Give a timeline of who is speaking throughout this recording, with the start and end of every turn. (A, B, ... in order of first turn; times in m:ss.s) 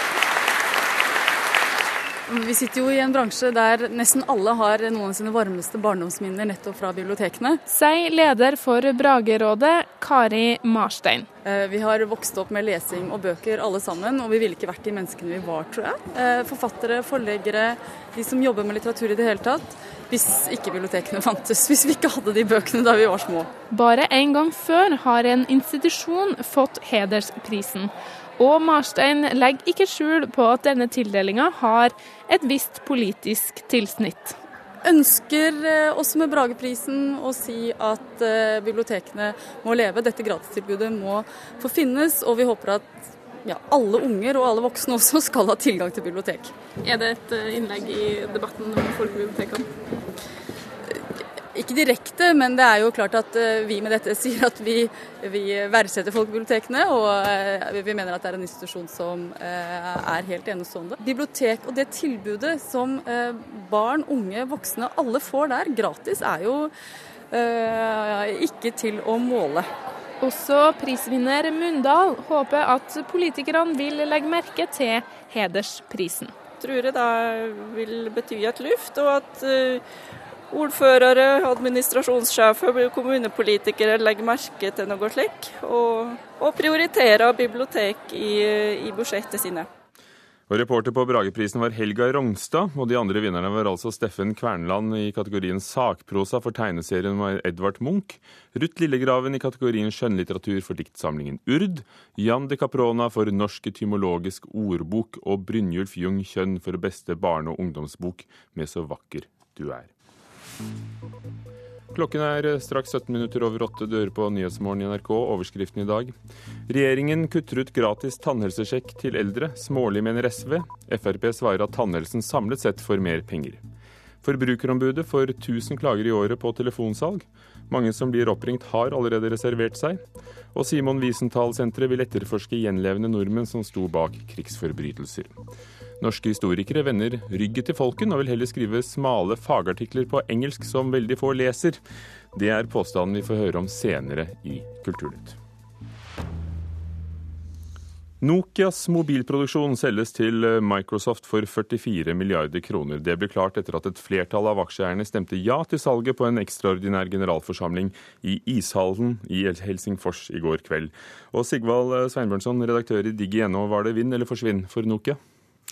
0:02.3-0:07.6 A
0:07.7-0:11.3 B
0:11.4-0:23.5 A
0:23.7-0:34.4 B
0:34.8-0:42.9 A
0:43.4-0:46.5 A
0:46.8-0:49.7 C
0:51.5-1:06.7 A
1:07.3-1:09.7 A
1:10.2-1:16.3 B
1:16.6-1:19.8 D
1:20.5-1:29.7 D
1:30.5-1:49.9 E
1:51.9-1:56.1 E
1:56.7-2:03.6 E
2:04.2-2:10.0 E
2:10.5-2:15.4 E
2:16.0-2:21.8 E
2:22.3-2:25.4 E
2:28.2-2:45.2 E